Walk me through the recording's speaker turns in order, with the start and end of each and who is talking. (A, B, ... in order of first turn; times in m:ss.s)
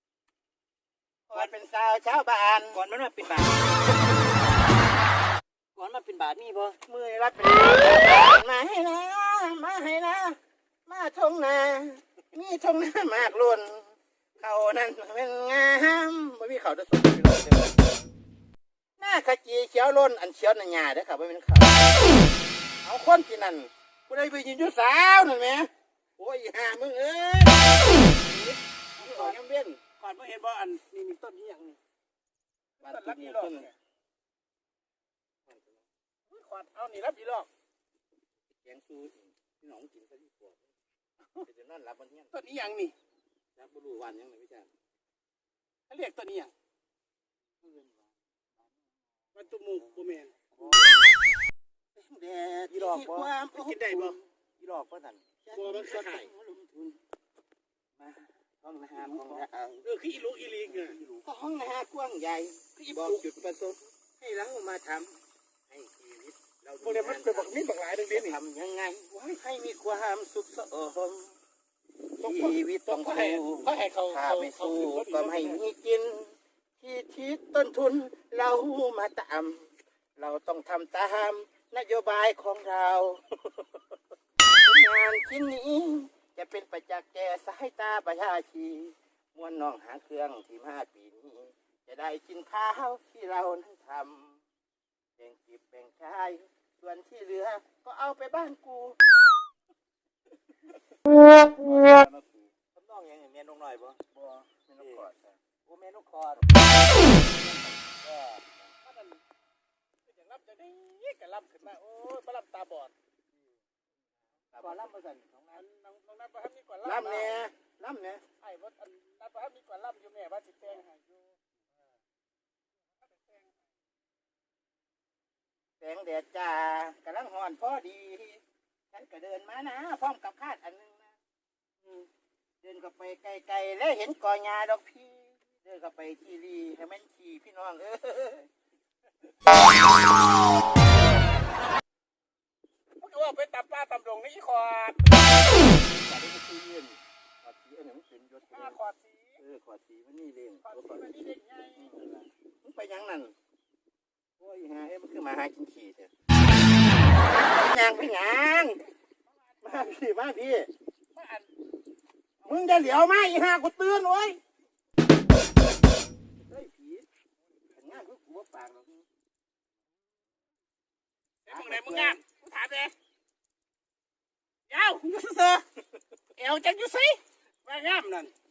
0:01.3-0:02.8 A
0:02.7-0:03.7 B
0:05.8-0:06.8 B
0:06.9-0:18.0 A
0:19.0-0:21.9 A
0:22.8-0:29.8 A
0:29.0-0:29.4 C
0:30.0-0:31.8 C
0:32.8-0:33.7 C
0:32.8-0:33.7 A
0:35.5-0:35.8 A
0:36.3-0:37.5 C
0:38.6-0:40.6 A
0:41.4-0:42.3 A
0:42.3-0:42.9 C
0:43.6-0:44.7 A
0:45.9-0:46.5 C
0:47.6-0:48.0 B
0:49.4-0:50.4 C
0:50.6-0:51.0 B
0:52.0-0:54.2 A
0:52.7-0:53.3 B
0:53.5-0:54.2 C
0:54.6-0:55.2 B
0:55.4-0:57.0 A
0:55.5-0:56.3 C
0:58.0-0:59.5 B
0:58.6-0:59.8 A
0:59.8-1:01.0 C
1:00.7-1:01.3 B
1:01.2-1:07.6 A
1:02.8-1:03.2 C
1:06.8-1:08.4 C
1:08.1-1:11.3 A
1:12.2-1:15.6 C
1:12.2-1:23.7 A
1:24.5-1:34.4 A
1:35.2-1:39.0 A
1:41.6-1:44.3 B
1:44.6-1:45.4 A
1:44.8-1:45.0 B
1:45.7-1:46.5 B
1:48.0-1:48.4 B
1:48.8-1:49.2 C
1:50.1-1:52.9 C
1:54.5-1:54.9 A
1:54.6-1:55.6 B
1:55.5-1:57.4 C
1:56.8-1:58.2 A
1:58.4-2:01.2 C
2:03.0-2:03.5 C
2:05.8-2:11.2 A
2:12.6-2:18.5 A
2:23.0-2:25.2 C
2:25.7-2:28.8 A
2:28.5-2:29.4 C
2:29.4-2:31.1 A
2:30.6-2:32.0 C
2:31.8-2:33.3 A
2:34.4-2:36.1 A
2:37.3-2:38.8 A
2:39.2-2:40.0 C
2:39.6-2:40.7 A
2:41.1-2:41.5 C
2:42.4-2:44.4 A
2:46.5-2:47.0 A
2:47.7-2:49.0 A
2:47.8-2:48.0 C
2:51.4-2:52.9 C
2:51.5-2:52.2 A
2:54.7-2:55.6 C
2:56.3-2:58.3 C